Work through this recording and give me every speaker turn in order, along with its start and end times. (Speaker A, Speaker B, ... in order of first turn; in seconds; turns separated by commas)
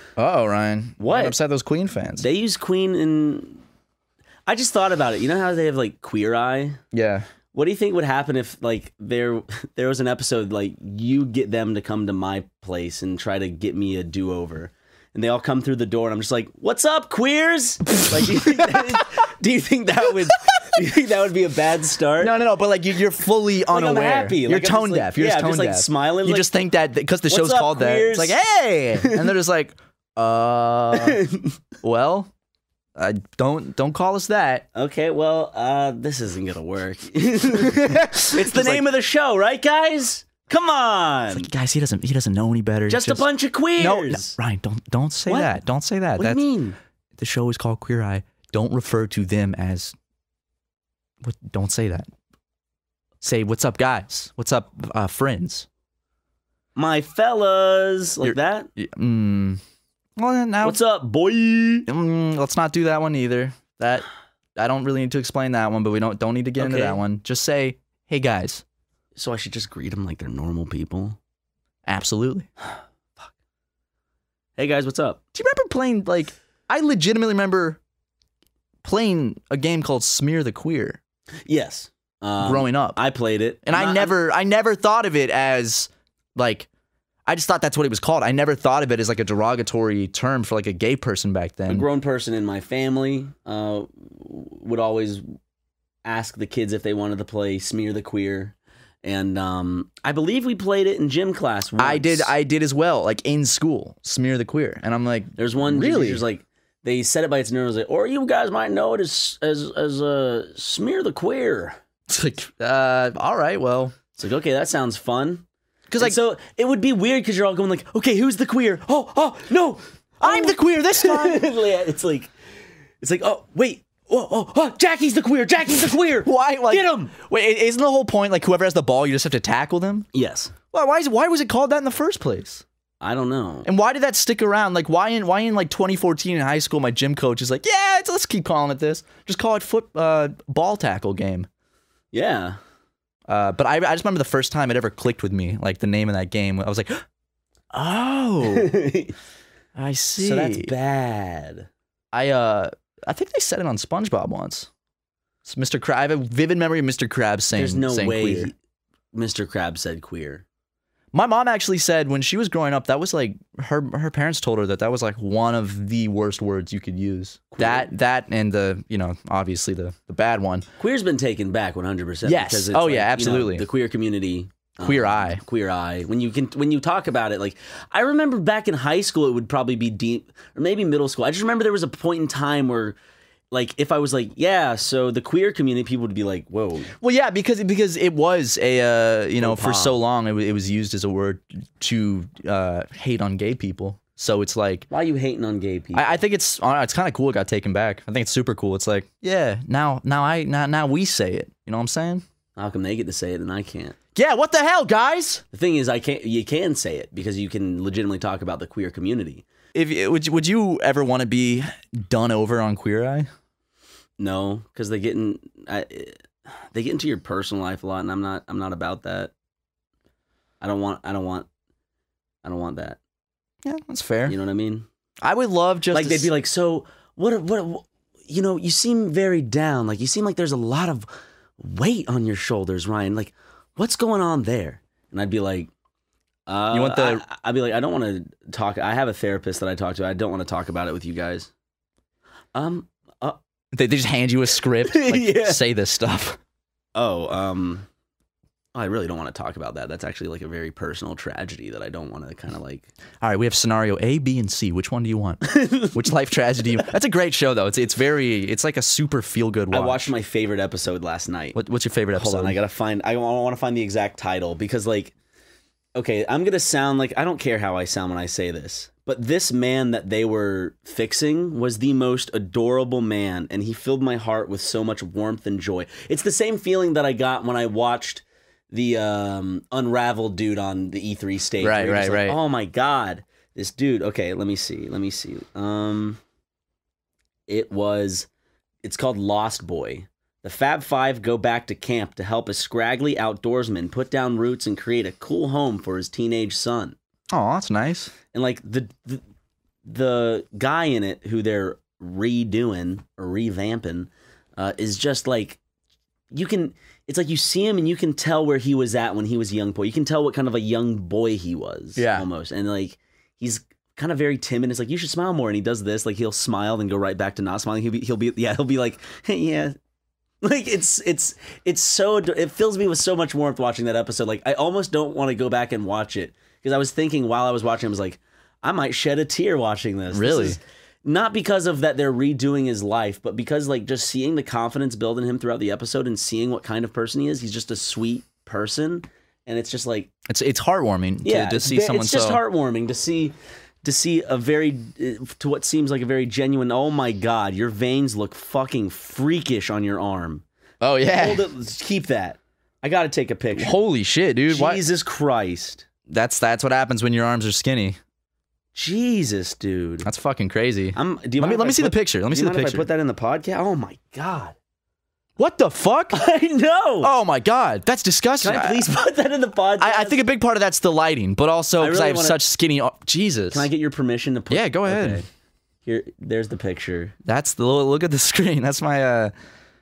Speaker A: 0.2-2.3, Speaker B: 1.0-1.4, Speaker B: 2.2-3.6, Speaker B: 4.5-6.8, Speaker A: 6.9-7.3, Speaker B: 7.5-22.3, Speaker A: 22.2-31.2, Speaker B: 23.7-26.5, Speaker B: 27.3-28.4, Speaker B: 29.0-29.3, Speaker B: 30.9-31.5, Speaker A: 31.8-32.3, Speaker A: 33.0-34.6, Speaker B: 34.7-41.5, Speaker A: 37.7-38.8, Speaker A: 41.3-43.2, Speaker B: 42.9-44.3, Speaker A: 43.8-46.4, Speaker B: 45.3-45.5, Speaker B: 46.2-46.8, Speaker A: 47.2-49.9, Speaker A: 51.2-52.1, Speaker A: 53.2-55.7, Speaker B: 56.8-58.7, Speaker A: 58.2-59.6, Speaker A: 60.2-60.8, Speaker B: 60.6-61.9, Speaker A: 61.9-68.6, Speaker B: 66.6-67.0, Speaker B: 69.2-71.2, Speaker A: 71.8-72.5, Speaker B: 74.6-75.2, Speaker A: 75.3-77.8, Speaker A: 78.8-81.0, Speaker B: 81.5-84.1, Speaker A: 82.4-83.0, Speaker A: 83.7-86.7, Speaker A: 87.2-91.8, Speaker B: 91.7-95.2, Speaker B: 96.0-102.3, Speaker A: 101.8-106.2, Speaker B: 105.4-111.8, Speaker A: 112.1-114.0, Speaker B: 114.2-115.4, Speaker A: 115.9-116.2, Speaker B: 116.0-122.3, Speaker A: 120.2-121.4, Speaker B: 123.0-127.1, Speaker A: 126.2-130.1, Speaker B: 130.1-130.5, Speaker A: 130.7-132.6, Speaker B: 133.0-133.7, Speaker A: 133.6-141.5, Speaker B: 142.1-142.6, Speaker A: 143.3-147.0, Speaker A: 147.7-148.8, Speaker B: 148.4-149.1, Speaker A: 149.8-150.7, Speaker B: 150.2-151.7, Speaker A: 152.1-154.7, Speaker A: 155.4-158.5, Speaker B: 157.5-158.5, Speaker B: 159.1-160.4, Speaker A: 161.1-170.7, Speaker B: 167.5-167.9, Speaker B: 170.8-183.0, Speaker A: 172.2-173.7, Speaker A: 174.8-175.4, Speaker B: 183.5-186.9, Speaker A: 187.0-194.9, Speaker B: 189.4-189.9, Speaker B: 194.9-196.2, Speaker A: 195.9-202.2, Speaker B: 202.6-204.0, Speaker A: 204.1-205.4, Speaker B: 205.5-209.4, Speaker A: 209.7-213.3, Speaker B: 214.2-219.3, Speaker B: 220.6-221.5, Speaker B: 222.4-223.0, Speaker A: 223.6-224.4, Speaker B: 224.3-224.8, Speaker A: 225.2-226.3, Speaker B: 225.9-235.7, Speaker B: 236.5-241.5, Speaker A: 236.7-237.2, Speaker B: 242.5-243.4, Speaker A: 243.7-246.4, Speaker B: 244.8-245.6, Speaker B: 246.9-247.8, Speaker B: 248.7-252.9, Speaker A: 253.2-260.1, Speaker B: 255.5-255.9, Speaker B: 259.7-261.6, Speaker A: 261.5-262.6, Speaker B: 262.1-265.1, Speaker B: 265.9-286.2, Speaker A: 281.6-282.4, Speaker B: 287.5-288.3, Speaker B: 288.8-296.9, Speaker A: 297.3-298.1, Speaker B: 298.3-299.2, Speaker B: 299.8-305.6, Speaker B: 306.3-319.8, Speaker A: 311.9-312.3, Speaker B: 320.4-340.1, Speaker A: 330.1-330.6, Speaker A: 340.3-342.4, Speaker B: 341.2-350.4, Speaker A: 350.8-351.4, Speaker B: 351.1-353.8, Speaker A: 353.6-354.8, Speaker B: 354.5-355.9, Speaker A: 356.1-358.0, Speaker B: 358.7-360.1, Speaker A: 360.0-362.9, Speaker B: 360.9-364.5, Speaker A: 365.4-366.2, Speaker B: 366.1-367.1, Speaker A: 367.0-368.9, Speaker B: 368.4-370.2, Speaker A: 369.8-373.7, Speaker B: 371.8-372.4, Speaker B: 373.5-375.3, Speaker A: 374.5-375.2, Speaker B: 375.9-377.1, Speaker A: 377.2-379.3